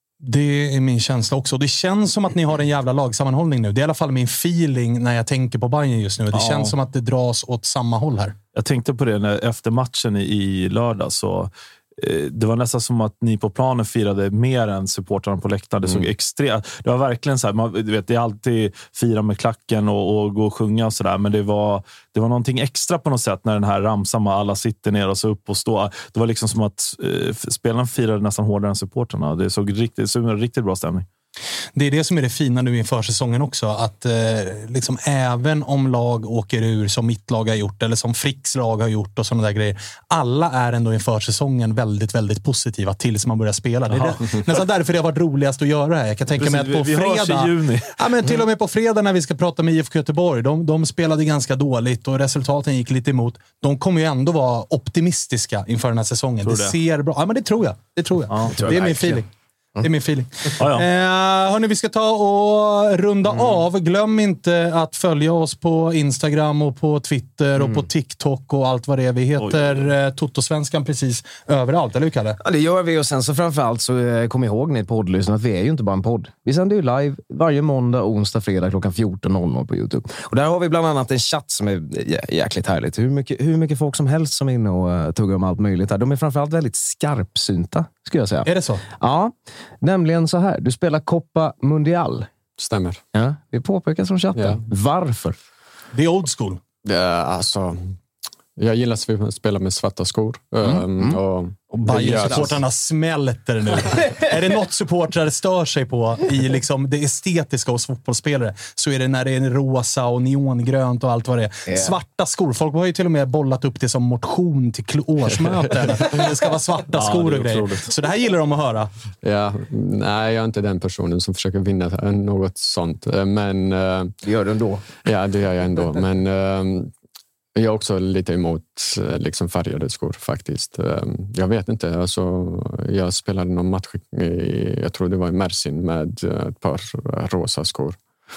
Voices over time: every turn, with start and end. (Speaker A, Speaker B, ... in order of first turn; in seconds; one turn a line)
Speaker A: 0.2-8.3
Speaker B: 6.3-6.7
Speaker B: 8.6-31.1
Speaker C: 15.8-16.1
Speaker A: 31.8-59.3
Speaker B: 43.9-44.4
Speaker B: 46.4-48.0
Speaker B: 56.5-56.8
Speaker B: 58.3-58.7
Speaker D: 58.5-59.2
Speaker A: 59.8-72.4
Speaker B: 60.6-60.9
Speaker D: 67.6-67.9
Speaker B: 69.4-69.9
Speaker D: 72.4-92.3
Speaker A: 88.5-88.8
Speaker C: 92.6-93.0
Speaker D: 93.1-95.4
Speaker C: 94.3-94.6
Speaker A: 95.9-96.6
Speaker C: 96.8-98.0
Speaker C: 98.6-102.6
Speaker D: 100.6-101.2
Speaker A: 101.7-118.9
Speaker D: 102.0-102.6
Speaker D: 111.7-112.0
Speaker C: 115.7-116.0
Speaker B: 116.9-117.9
Speaker C: 119.2-124.2
Speaker D: 124.2-124.8
Speaker C: 125.0-126.9
Speaker C: 127.5-138.0